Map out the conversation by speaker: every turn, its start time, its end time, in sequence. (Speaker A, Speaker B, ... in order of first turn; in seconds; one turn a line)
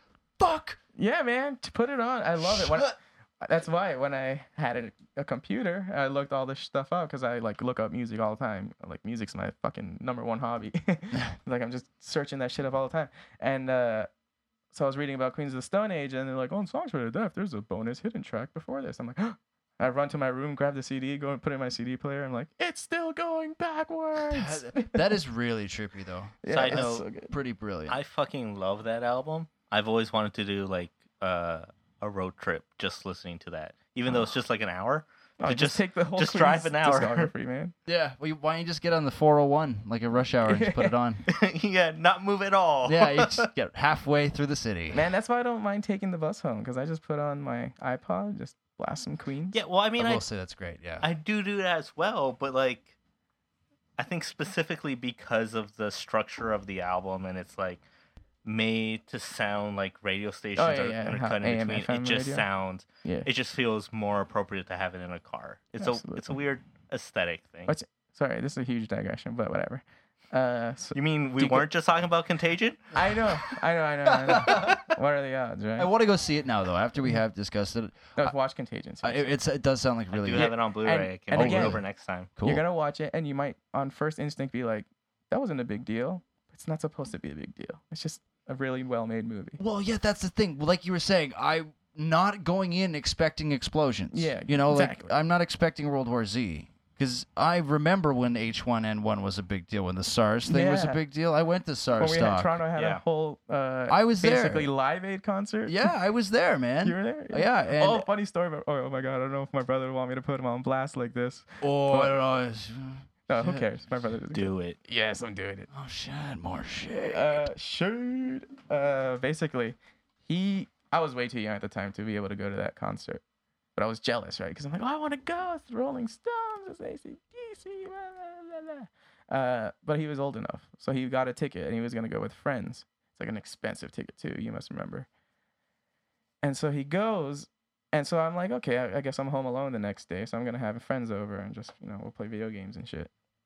Speaker A: 0.4-0.8
Speaker B: 0.9-14.1
Speaker A: 2.4-2.9
Speaker B: 14.7-25.1
Speaker A: 24.3-28.0
Speaker B: 26.4-27.3
Speaker C: 26.5-27.0
Speaker C: 27.9-37.3
Speaker B: 35.4-37.7
Speaker A: 37.9-41.2
Speaker B: 40.4-41.0
Speaker C: 41.3-43.5
Speaker A: 42.8-45.0
Speaker B: 44.9-49.6
Speaker C: 49.5-50.2
Speaker A: 50.0-51.1
Speaker C: 51.0-53.0
Speaker C: 54.0-57.8
Speaker C: 58.4-67.7
Speaker B: 60.5-62.5
Speaker B: 63.0-63.3
Speaker B: 65.8-66.4
Speaker B: 67.7-71.7
Speaker C: 70.9-72.9
Speaker B: 72.9-75.9
Speaker A: 74.0-74.9
Speaker A: 75.8-78.3
Speaker B: 78.2-79.3
Speaker A: 79.0-80.5
Speaker C: 80.1-82.3
Speaker B: 80.3-81.8
Speaker A: 81.3-81.8
Speaker A: 82.3-82.6
Speaker B: 82.4-89.6
Speaker A: 89.6-102.5
Speaker B: 94.1-95.1
Speaker B: 100.5-101.0
Speaker B: 102.0-105.9
Speaker C: 102.7-103.0
Speaker A: 103.9-104.7
Speaker A: 105.7-108.0
Speaker B: 106.8-112.1
Speaker A: 111.6-113.7
Speaker B: 113.3-115.7
Speaker C: 114.3-114.8
Speaker A: 115.7-117.4
Speaker B: 117.1-123.2
Speaker B: 123.8-135.1
Speaker B: 136.4-143.1